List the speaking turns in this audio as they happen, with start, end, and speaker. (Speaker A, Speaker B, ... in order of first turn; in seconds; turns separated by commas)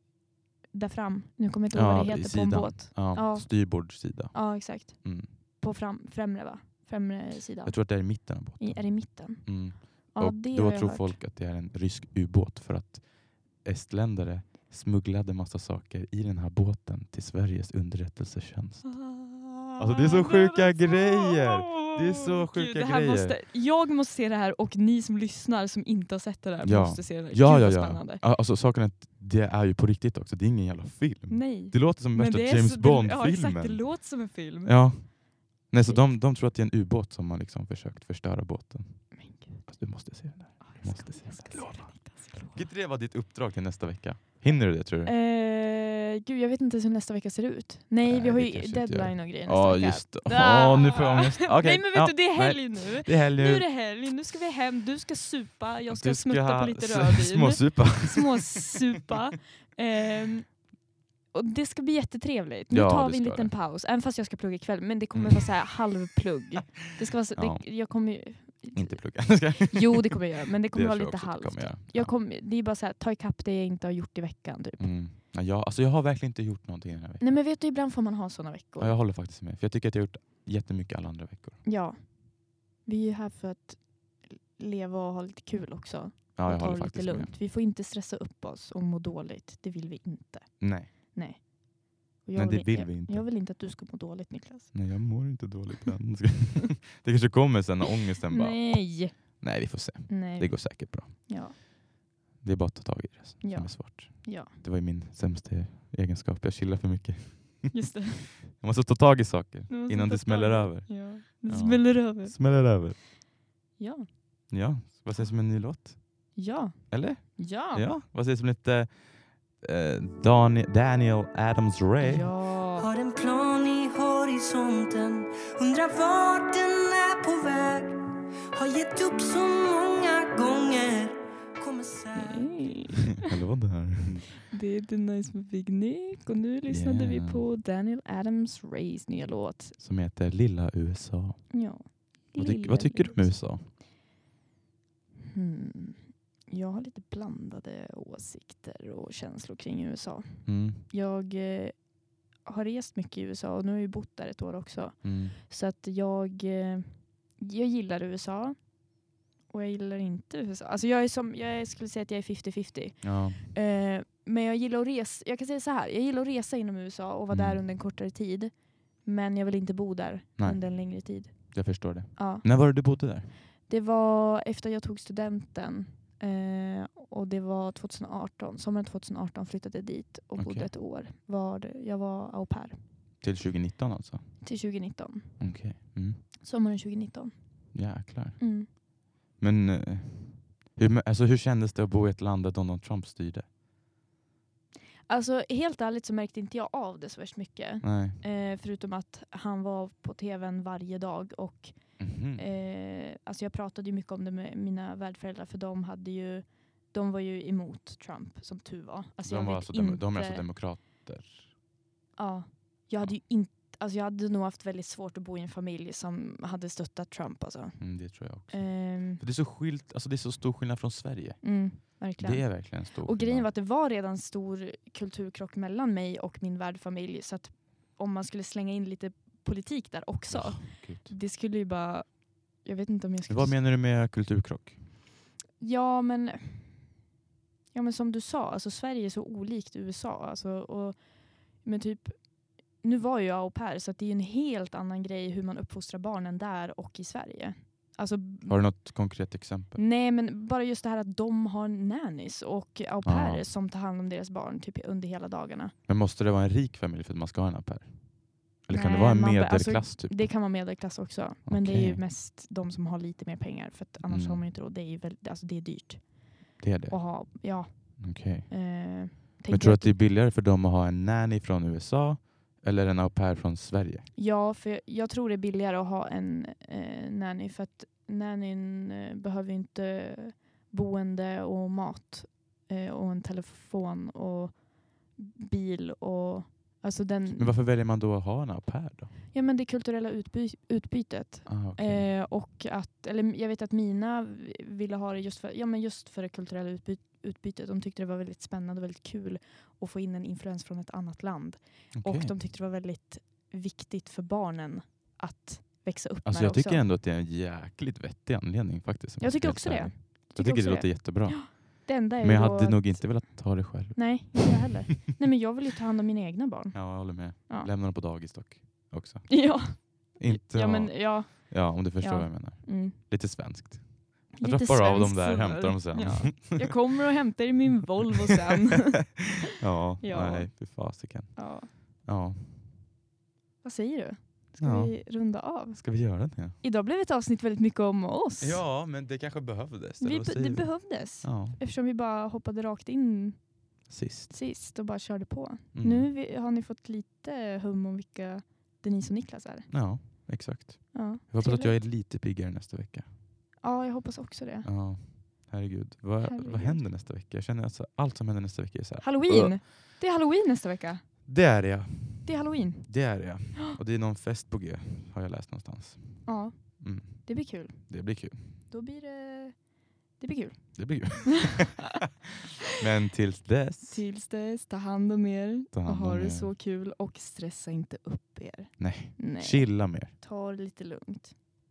Speaker A: 0.7-11.2, Speaker B: 1.7-5.3, Speaker B: 7.6-19.1, Speaker A: 18.8-28.2, Speaker B: 19.7-23.4, Speaker B: 26.6-45.1, Speaker A: 31.3-35.2, Speaker A: 39.1-40.0, Speaker A: 40.6-42.6, Speaker A: 45.0-60.7, Speaker B: 48.0-53.6, Speaker B: 55.9-59.1, Speaker A: 61.3-74.9, Speaker B: 62.7-63.5, Speaker B: 65.1-65.8, Speaker B: 67.3-68.2, Speaker B: 68.7-72.1, Speaker B: 74.8-77.4, Speaker A: 77.2-79.0, Speaker B: 78.8-81.6, Speaker A: 81.6-95.0, Speaker B: 86.3-87.3, Speaker B: 90.6-90.9, Speaker B: 92.3-93.3, Speaker B: 94.7-101.6, Speaker A: 98.3-101.5, Speaker B: 102.4-113.0, Speaker A: 103.4-104.5, Speaker A: 107.7-108.3, Speaker A: 109.7-112.8, Speaker A: 113.8-114.1, Speaker B: 114.5-116.4, Speaker A: 116.3-117.8, Speaker B: 116.9-122.3, Speaker A: 122.0-122.9, Speaker C: 122.8-127.9, Speaker C: 128.5-132.8, Speaker A: 132.1-133.3, Speaker B: 133.2-134.3, Speaker A: 134.4-139.8, Speaker B: 136.7-137.4, Speaker B: 139.8-141.6, Speaker A: 141.5-143.5, Speaker B: 142.3-143.7, Speaker A: 145.3-173.0, Speaker B: 150.4-150.8, Speaker B: 155.0-155.4, Speaker B: 163.0-163.4, Speaker B: 167.3-167.6, Speaker B: 170.4-173.3, Speaker A: 173.7-183.2, Speaker B: 180.3-180.7, Speaker B: 183.2-184.4, Speaker A: 184.4-185.7, Speaker B: 185.4-186.2, Speaker A: 186.4-188.7, Speaker B: 187.7-188.8, Speaker B: 189.4-193.5, Speaker A: 195.1-210.5, Speaker B: 197.8-198.2, Speaker B: 202.0-202.4, Speaker B: 209.2-211.5, Speaker A: 212.2-219.2, Speaker B: 217.8-223.5, Speaker A: 221.4-233.6, Speaker B: 230.3-231.1, Speaker B: 233.3-234.8, Speaker A: 235.6-237.0, Speaker A: 237.7-248.9, Speaker B: 248.4-249.8, Speaker A: 249.7-255.7, Speaker B: 253.0-253.4, Speaker B: 255.9-260.7, Speaker A: 258.7-270.0, Speaker B: 261.4-262.0, Speaker B: 264.1-264.4, Speaker B: 266.6-274.1, Speaker A: 274.1-287.6, Speaker B: 287.4-289.1, Speaker A: 289.3-306.8, Speaker B: 291.4-292.1, Speaker B: 301.9-302.3, Speaker B: 306.2-314.5, Speaker A: 309.2-317.7, Speaker B: 316.7-326.7, Speaker A: 319.3-323.0, Speaker A: 324.3-329.4, Speaker B: 329.6-332.7, Speaker A: 330.0-331.7, Speaker A: 333.6-338.6, Speaker B: 334.6-336.6, Speaker B: 338.4-341.6, Speaker A: 340.0-350.2, Speaker B: 343.9-344.3, Speaker B: 345.7-346.1, Speaker B: 349.7-353.1, Speaker A: 350.9-351.8, Speaker A: 353.6-354.7, Speaker B: 354.6-359.6, Speaker A: 356.2-356.8, Speaker A: 359.0-361.1, Speaker B: 361.2-368.6, Speaker A: 362.2-363.8, Speaker A: 366.2-371.2, Speaker B: 370.8-371.9, Speaker B: 372.8-374.0, Speaker A: 373.9-381.3, Speaker B: 375.7-376.5, Speaker B: 378.8-380.1